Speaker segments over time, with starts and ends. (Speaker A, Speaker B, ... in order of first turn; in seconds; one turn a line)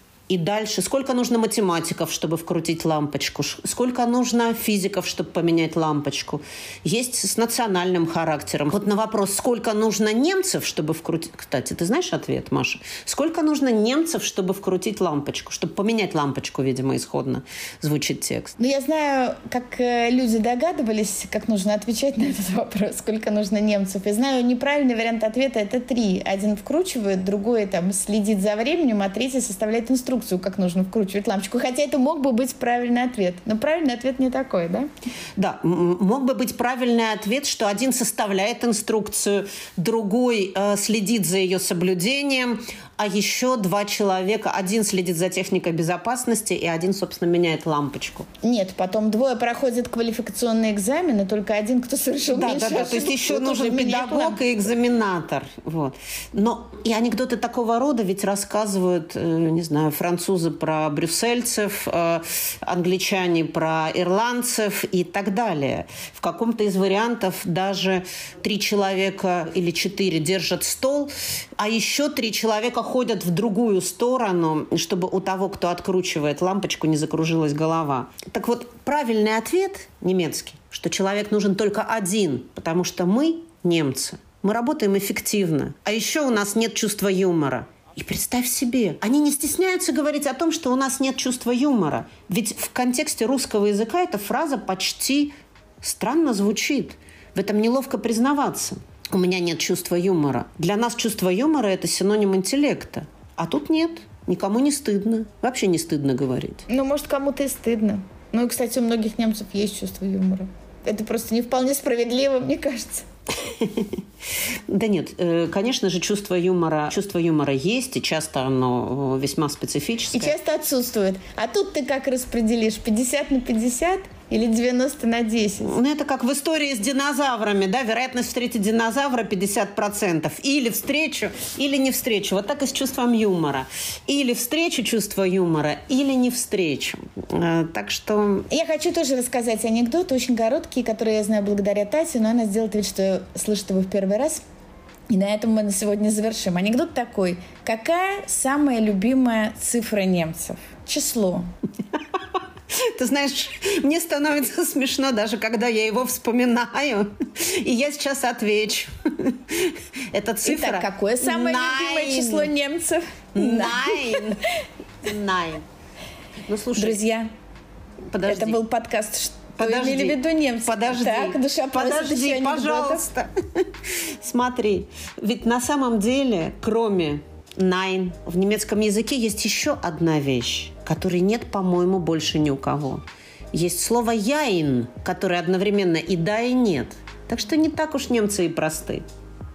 Speaker A: 0.3-18.5
Speaker B: 18.6-34.9
Speaker A: 35.4-48.3
Speaker B: 48.4-54.4
Speaker A: 52.3-106.7
Speaker B: 106.7-113.0
Speaker A: 113.4-114.0
Speaker A: 114.7-120.3
Speaker B: 120.1-125.8
Speaker A: 125.6-138.5
Speaker B: 138.5-144.4
Speaker B: 145.1-151.5
Speaker A: 152.7-162.5
Speaker B: 160.4-164.2
Speaker A: 163.3-164.4
Speaker A: 165.1-165.7
Speaker A: 166.5-167.0
Speaker B: 166.8-167.3
Speaker A: 168.1-168.6
Speaker B: 168.2-173.1
Speaker A: 169.6-173.7
Speaker A: 174.2-189.0